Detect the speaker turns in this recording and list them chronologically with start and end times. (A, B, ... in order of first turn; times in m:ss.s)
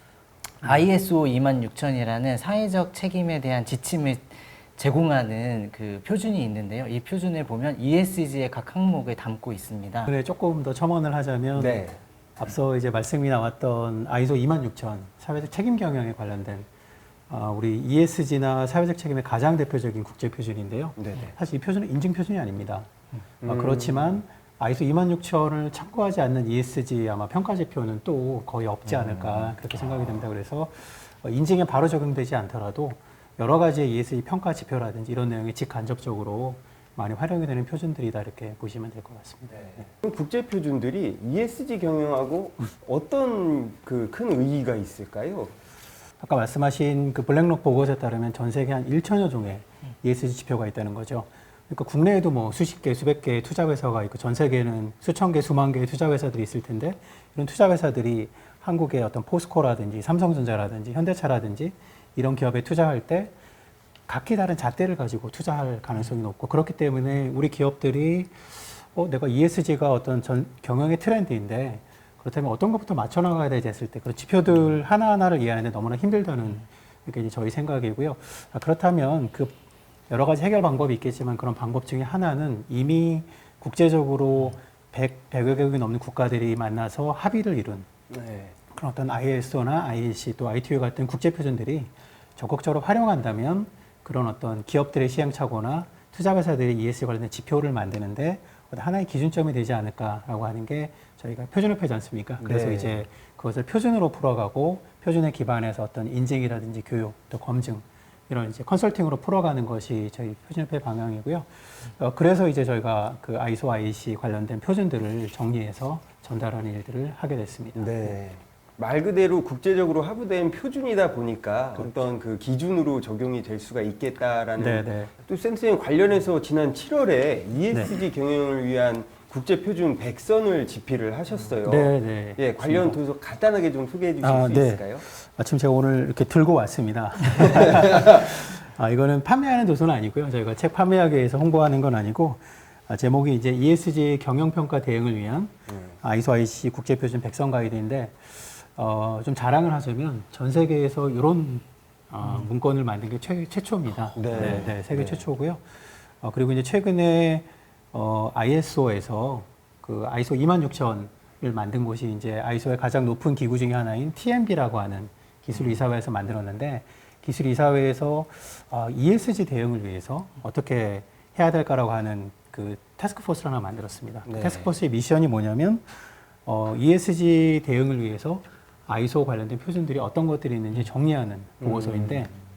0:00.6-0:10.1 A
0:10.1-0:11.9 B
0:11.6-0:12.0 C
0:12.4-0:16.7 B
0:17.3-0:22.9 B
0:21.0-0:21.3 C
0:23.4-0:24.2 C
0:23.4-0:39.9 B
0:39.6-0:45.6 C
0:46.2-1:03.3 B
1:04.1-1:19.6 B
1:20.1-1:27.9 B
1:28.1-1:28.6 C
1:28.7-1:58.1 B
1:42.4-1:42.9 C
1:57.8-2:15.0 C
2:04.6-2:05.1 B
2:11.6-2:13.0 B
2:14.2-2:55.9 B
2:25.7-2:26.0 C
2:34.2-2:35.2 C
2:54.3-2:54.7 C
2:56.4-3:02.3 B
3:01.6-3:02.3 C